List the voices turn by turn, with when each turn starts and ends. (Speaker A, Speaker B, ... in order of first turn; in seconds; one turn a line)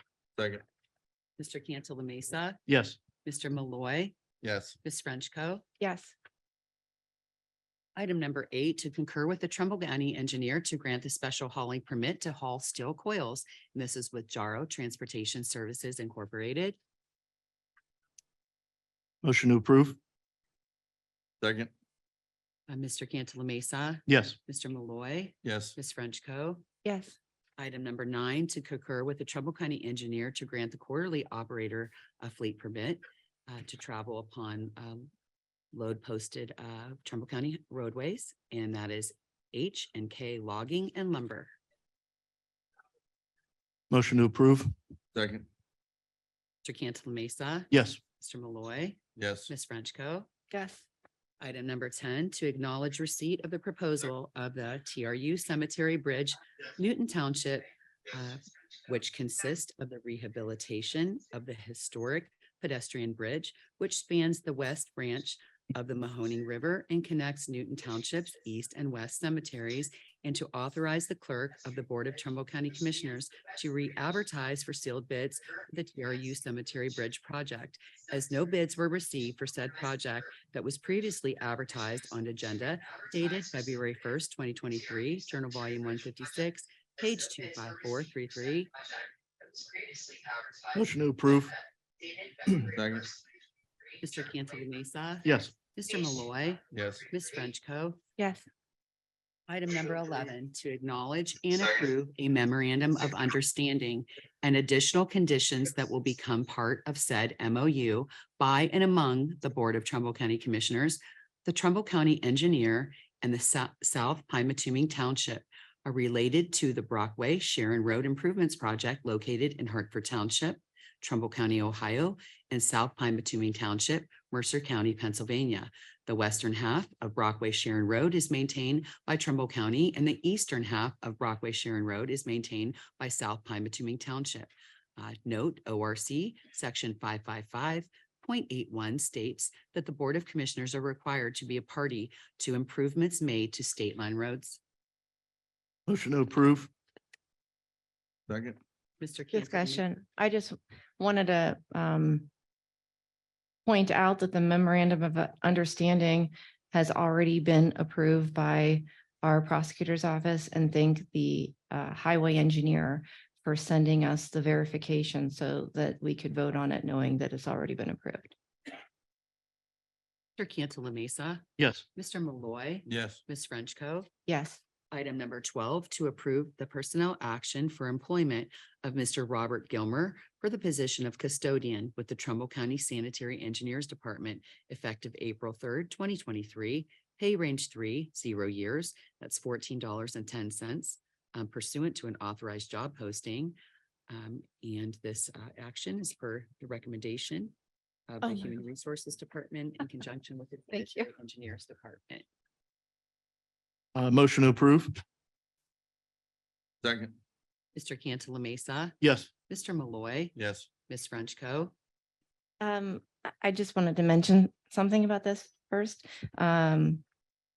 Speaker A: 1.4-2.6
Speaker B: 2.7-3.0
Speaker A: 3.2-4.2
Speaker C: 4.4-4.7
Speaker A: 4.8-5.6
Speaker D: 5.8-6.1
Speaker A: 8.0-16.8
Speaker B: 19.2-20.0
Speaker C: 21.4-21.7
Speaker A: 22.7-26.6
Speaker B: 24.1-24.4
Speaker C: 25.4-25.7
Speaker D: 26.8-27.1
Speaker A: 27.6-35.1
Speaker A: 35.7-41.5
Speaker B: 43.9-44.7
Speaker C: 45.1-45.5
Speaker A: 46.6-50.3
Speaker B: 47.7-48.0
Speaker C: 49.2-49.5
Speaker D: 50.5-50.9
Speaker A: 51.4-88.7
Speaker B: 90.7-91.5
Speaker C: 92.7-93.2
Speaker A: 94.0-98.0
Speaker B: 95.2-95.5
Speaker C: 96.7-97.0
Speaker D: 98.2-98.4
Speaker A: 99.5-144.6
Speaker B: 145.9-146.7
Speaker C: 148.3-148.6
Speaker A: 149.0-149.8
Speaker D: 149.3-152.3
Speaker D: 153.7-168.3
Speaker A: 170.4-174.1
Speaker B: 171.6-171.8
Speaker C: 172.9-173.2
Speaker D: 174.3-174.6
Speaker A: 174.9-193.5
Speaker A: 194.1-197.5
Speaker A: 198.1-202.2
Speaker D: 198.2-198.5
Speaker D: 200.7-201.1
Speaker B: 203.9-205.0
Speaker C: 206.8-207.2
Speaker A: 207.7-208.9
Speaker B: 209.0-209.3
Speaker A: 209.5-210.3
Speaker C: 210.3-210.7
Speaker A: 210.9-211.7
Speaker D: 212.6-217.0